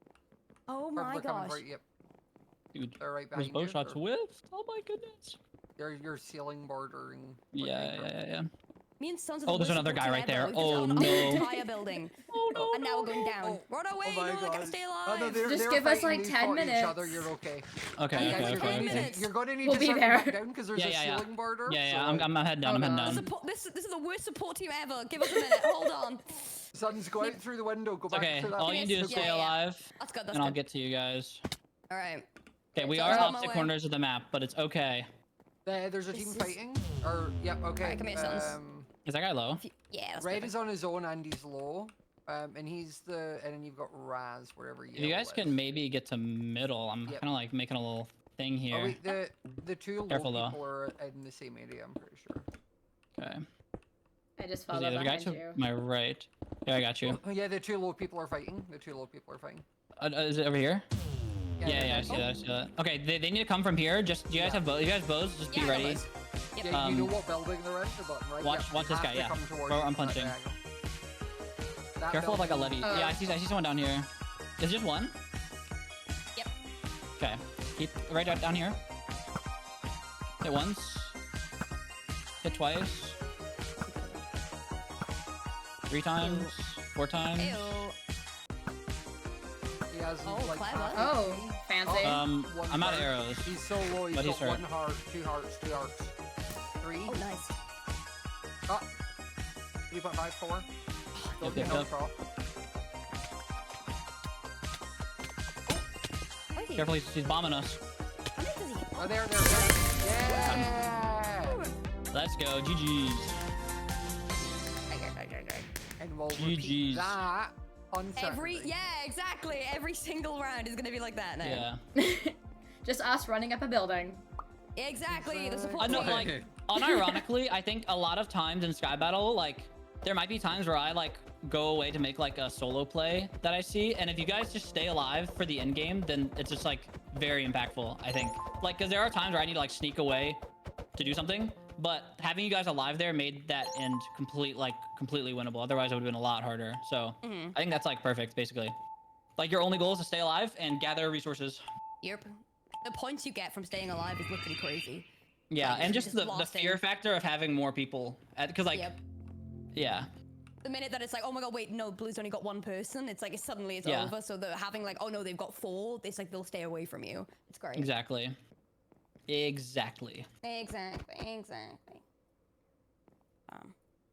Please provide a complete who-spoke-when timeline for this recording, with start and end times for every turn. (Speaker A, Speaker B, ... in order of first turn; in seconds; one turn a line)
Speaker A: 0.7-1.6
Speaker B: 0.9-1.8
Speaker C: 2.7-5.4
Speaker B: 3.0-4.0
Speaker B: 5.8-8.1
Speaker C: 7.5-8.5
Speaker A: 9.0-15.7
Speaker C: 9.5-11.5
Speaker D: 10.9-11.4
Speaker C: 12.3-13.2
Speaker B: 12.5-23.3
Speaker D: 15.4-17.3
Speaker C: 18.0-19.1
Speaker A: 18.1-19.3
Speaker D: 19.6-20.4
Speaker C: 20.7-23.3
Speaker A: 22.6-26.4
Speaker B: 26.7-29.3
Speaker C: 28.1-31.4
Speaker A: 28.6-30.6
Speaker A: 31.9-33.8
Speaker C: 32.8-35.1
Speaker D: 33.0-33.4
Speaker B: 35.6-38.9
Speaker A: 36.1-36.6
Speaker A: 37.8-38.6
Speaker C: 39.1-39.6
Speaker A: 39.6-40.5
Speaker B: 40.2-45.6
Speaker C: 44.9-49.0
Speaker B: 48.7-52.5
Speaker C: 50.1-50.6
Speaker C: 53.2-53.4
Speaker D: 54.4-55.6
Speaker C: 54.7-57.2
Speaker B: 57.0-59.6
Speaker C: 60.0-60.9
Speaker B: 61.6-62.3
Speaker C: 61.6-66.0
Speaker B: 64.3-64.9
Speaker A: 65.5-66.7
Speaker B: 66.6-70.6
Speaker C: 66.7-67.2
Speaker C: 68.4-70.4
Speaker B: 72.0-73.1
Speaker C: 72.1-75.2
Speaker D: 72.8-73.2
Speaker C: 77.2-78.8
Speaker C: 80.4-81.2
Speaker C: 82.4-83.2
Speaker A: 83.9-84.2
Speaker C: 85.9-87.8
Speaker A: 86.2-86.5
Speaker A: 87.4-88.0
Speaker B: 89.9-96.1
Speaker A: 90.2-91.1
Speaker D: 91.0-92.3
Speaker C: 92.0-93.5
Speaker C: 94.1-94.6
Speaker B: 96.8-97.2
Speaker A: 97.1-97.6
Speaker B: 99.9-100.7
Speaker A: 101.2-101.8
Speaker B: 101.4-102.2
Speaker C: 101.4-101.9
Speaker A: 106.5-106.9
Speaker C: 106.8-107.8
Speaker A: 108.4-110.7
Speaker B: 109.0-111.6
Speaker C: 110.4-110.7
Speaker A: 111.5-111.7
Speaker C: 112.1-113.4
Speaker A: 114.9-115.7
Speaker B: 116.0-118.7
Speaker C: 116.3-117.2
Speaker A: 118.2-121.7
Speaker C: 121.4-121.8
Speaker D: 122.0-124.2
Speaker A: 124.8-126.4
Speaker B: 125.1-126.5
Speaker C: 125.8-140.4
Speaker C: 141.0-148.8
Speaker A: 147.2-147.6
Speaker C: 149.4-151.6
Speaker A: 152.0-155.1
Speaker C: 155.5-158.9
Speaker A: 155.6-156.8
Speaker A: 158.7-159.0
Speaker C: 159.7-160.1
Speaker A: 160.6-167.9
Speaker C: 163.8-164.1
Speaker C: 167.8-168.4
Speaker C: 169.3-170.3
Speaker A: 170.4-172.0
Speaker A: 173.5-173.7